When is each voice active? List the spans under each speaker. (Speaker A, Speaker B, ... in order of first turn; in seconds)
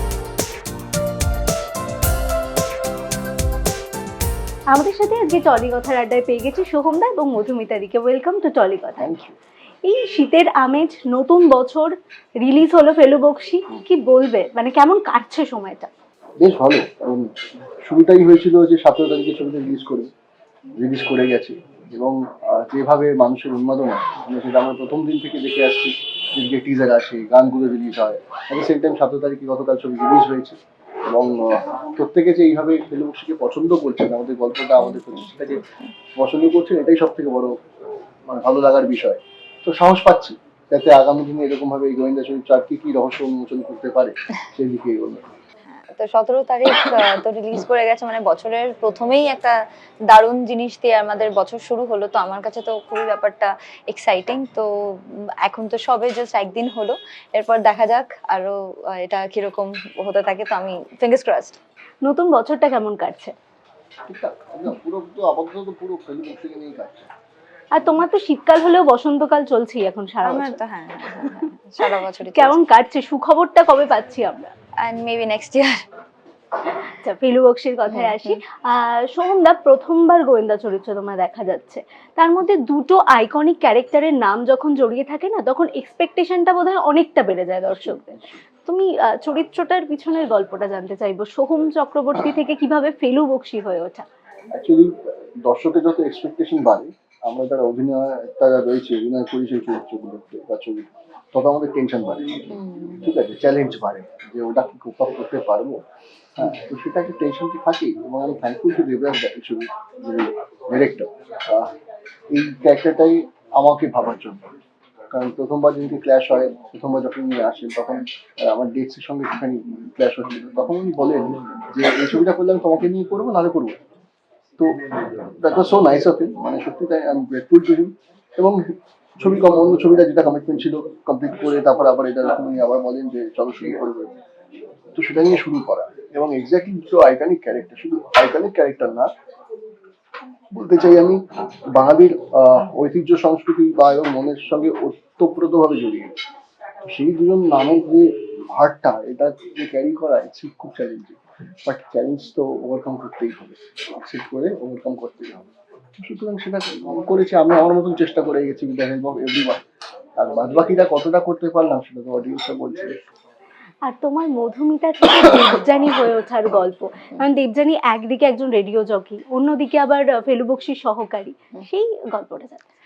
Speaker A: 4.7-9.1, 9.8-15.9, 62.0-63.3, 67.7-70.6, 71.9-74.5, 76.8-88.1, 88.6-94.0, 163.8-172.6
Speaker B: 9.0-9.3, 16.4-17.3, 17.9-20.1, 20.8-37.5, 38.3-45.3, 64.1-67.1, 87.7-88.4, 94.5-94.9, 95.4-105.8, 106.4-111.7, 112.3-114.5, 115.1-123.8, 124.6-134.1, 134.9-139.1, 140.5-141.2, 141.7-146.1, 146.9-159.6, 160.2-162.9
Speaker C: 34.8-35.3, 45.7-49.5, 50.1-61.6, 70.2-72.6, 74.8-75.8, 77.9-78.4, 102.5-103.0